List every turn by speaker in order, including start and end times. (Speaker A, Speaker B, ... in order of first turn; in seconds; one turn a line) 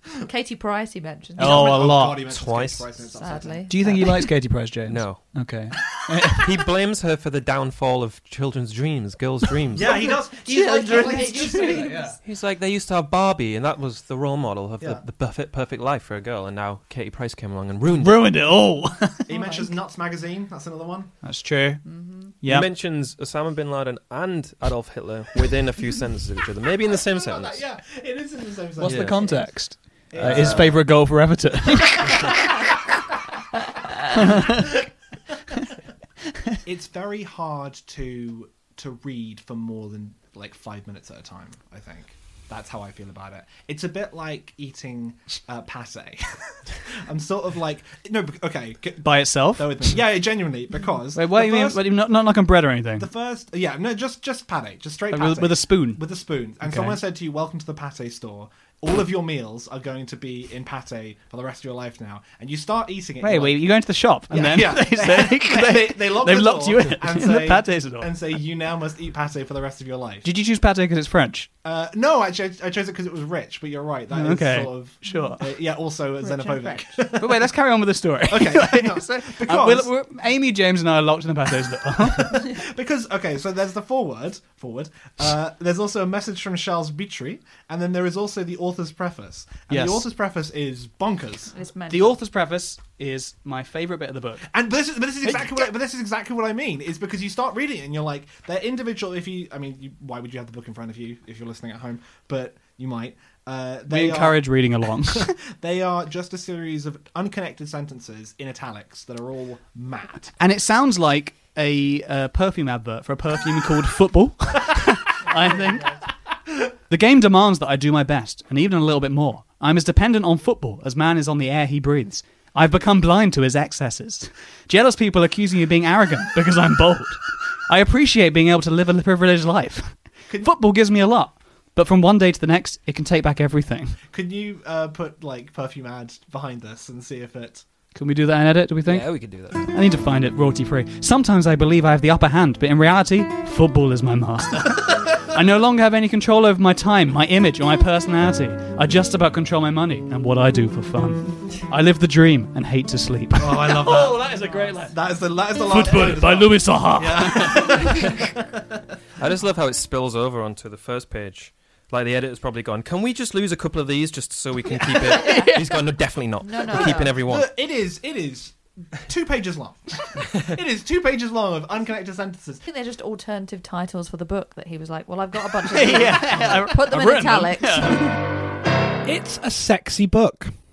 Speaker A: 0.2-1.8
Speaker B: 1.4-2.2
Speaker C: 1.4-4.0
Speaker D: 2.3-2.9
Speaker A: 3.1-4.1
Speaker B: 3.7-6.5
Speaker D: 4.9-5.3
Speaker D: 6.4-9.9
Speaker C: 9.7-12.2
Speaker A: 10.4-12.2
Speaker B: 11.3-11.6
Speaker D: 12.2-18.3
Speaker B: 18.0-19.3
Speaker C: 19.3-21.1
Speaker A: 19.3-19.6
Speaker B: 21.2-21.8
Speaker A: 21.9-22.3
Speaker B: 22.4-22.7
Speaker D: 22.4-27.6
Speaker C: 26.9-29.5
Speaker B: 28.8-32.4
Speaker D: 28.8-29.2
Speaker C: 30.1-30.9
Speaker D: 30.1-30.8
Speaker B: 34.1-34.7
Speaker C: 34.4-34.8
Speaker C: 36.6-51.8
Speaker B: 49.0-50.0
Speaker B: 51.1-53.1
Speaker C: 53.0-63.6
Speaker B: 55.1-56.0
Speaker B: 56.6-57.0
Speaker B: 63.2-68.1
Speaker C: 64.3-70.3
Speaker B: 70.2-71.5
Speaker C: 71.6-77.5
Speaker B: 74.1-75.4
Speaker A: 76.2-76.8
Speaker B: 77.1-82.5
Speaker C: 78.3-79.9
Speaker C: 82.1-91.5
Speaker B: 89.7-90.1
Speaker A: 91.5-92.2
Speaker B: 91.9-94.5
Speaker C: 94.5-104.4
Speaker B: 95.2-95.6
Speaker B: 103.9-105.3
Speaker C: 105.0-110.3
Speaker B: 110.4-116.0
Speaker C: 115.3-115.9
Speaker B: 116.9-134.0
Speaker C: 130.3-130.6
Speaker C: 134.1-137.7
Speaker B: 137.9-155.0
Speaker D: 138.9-139.7
Speaker C: 153.4-154.3
Speaker C: 154.9-158.6
Speaker B: 155.6-158.1
Speaker D: 159.2-167.5
Speaker A: 165.2-165.6
Speaker B: 165.2-165.6
Speaker A: 166.4-167.2
Speaker C: 167.2-172.6
Speaker A: 172.6-178.2
Speaker B: 175.7-178.2
Speaker C: 179.1-180.6